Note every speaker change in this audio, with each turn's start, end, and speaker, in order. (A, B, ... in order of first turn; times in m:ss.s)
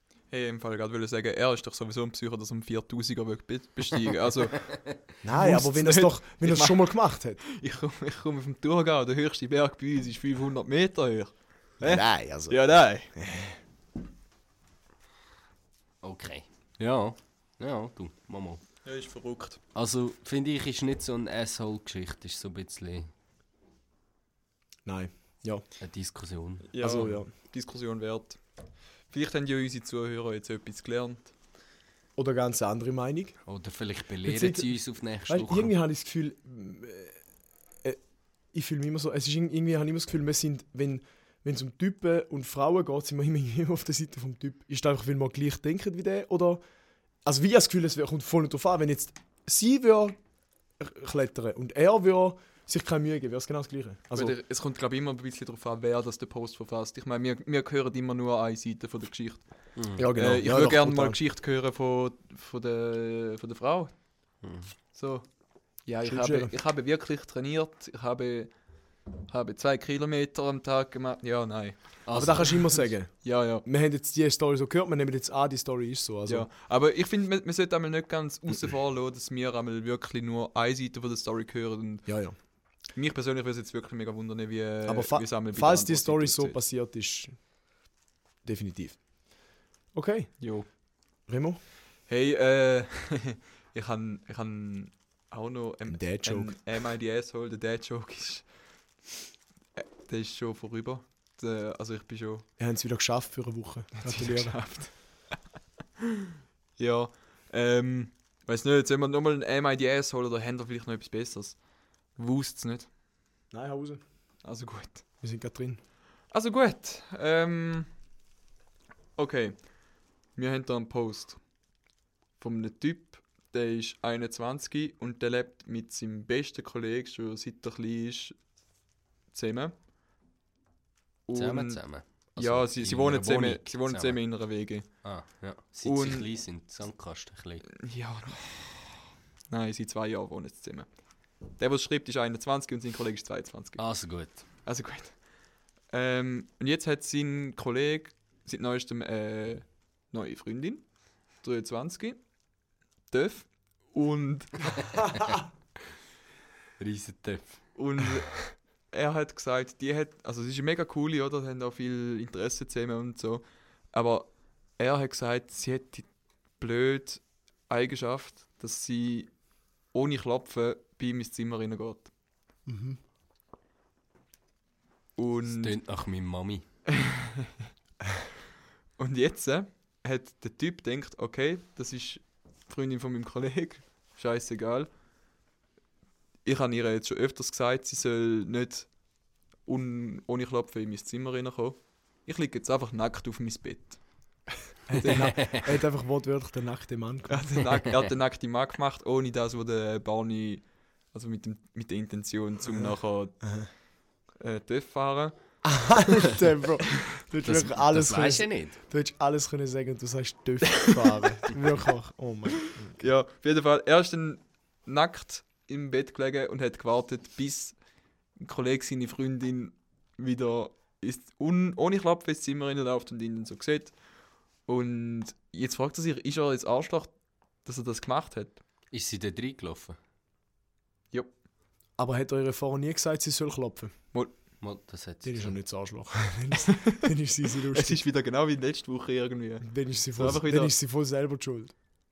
0:00.3-0:13.1 A
0:05.2-0:07.4 B
0:11.8-0:12.6 B
0:13.1-0:13.6 B
0:16.0-0:18.6 C
0:18.8-0:19.6 A
0:19.7-0:23.1 C
0:24.8-0:25.6 B
0:25.8-0:27.1 C
0:26.7-0:28.4 A
0:26.8-0:27.3 B
0:29.1-0:31.3 A
0:32.2-0:33.4 B
0:33.4-0:35.7 C
0:34.2-0:34.7 B
0:35.2-0:37.2 B
0:38.5-0:46.6 B
0:47.2-0:50.2 B
0:50.8-0:54.4 B
0:54.1-1:03.9 A
0:59.8-1:00.0 C
1:00.0-1:01.2 B
1:04.4-1:04.7 C
1:04.9-1:05.3 A
1:05.8-1:08.6 A
1:06.0-1:06.5 B
1:09.3-1:13.6 A
1:12.0-1:12.7 C
1:12.1-1:16.5 B
1:16.3-1:22.2 A
1:22.1-1:22.3 B
1:22.9-1:26.6 A
1:24.8-1:27.4 B
1:28.4-1:29.0 B
1:29.9-1:30.4 B
1:30.4-1:30.7 A
1:31.3-1:31.6 B
1:32.1-1:38.5 A
1:35.9-1:36.6 B
1:39.8-1:42.4 A
1:42.6-1:44.6 B
1:44.0-1:45.0 A
1:46.0-1:51.6 A
1:52.2-1:52.9 A
1:53.5-1:54.0 B
1:54.4-1:55.0 A
1:55.2-1:55.8 B
1:56.3-1:57.9 A
1:59.2-1:59.7 A
2:00.4-2:01.4 A
2:02.4-2:08.4 A
2:09.3-2:09.7 A
2:11.3-2:15.0 A
2:11.3-2:14.2 C
2:15.0-2:17.7 C
2:15.8-2:16.3 A
2:17.8-2:18.9 A
2:19.5-2:20.9 A
2:21.6-2:23.8 A
2:23.8-2:24.4 C
2:24.6-2:25.2 A
2:25.9-2:30.9 A
2:31.4-2:32.2 A
2:33.1-2:35.2 A
2:36.8-2:37.6 C
2:37.8-2:46.1 A
2:46.6-2:49.3 A
2:49.9-2:52.1 A
2:52.7-2:53.0 B
2:55.2-2:55.8 A
2:55.4-2:56.6 C
2:56.9-2:57.5 A
2:59.0-3:04.9 A
3:06.4-3:08.9 A
3:09.6-3:14.0 A
3:14.9-3:15.5 A
3:14.9-3:17.6 B
3:15.1-3:15.6 C
3:17.3-3:23.6 A
3:22.7-3:23.7 B
3:24.4-3:25.3 A
3:25.6-3:33.0 B
3:27.4-3:28.8 C
3:30.7-3:31.0 A
3:33.0-3:37.8 A
3:38.4-3:44.0 A
3:44.7-3:47.1 A
3:47.6-3:48.6 A
3:48.9-3:50.0 C
3:52.0-3:53.9 B
3:54.6-3:55.6 C
3:55.2-3:58.0 B
3:56.6-3:57.0 A
3:57.7-4:00.7 A
3:59.6-4:01.7 B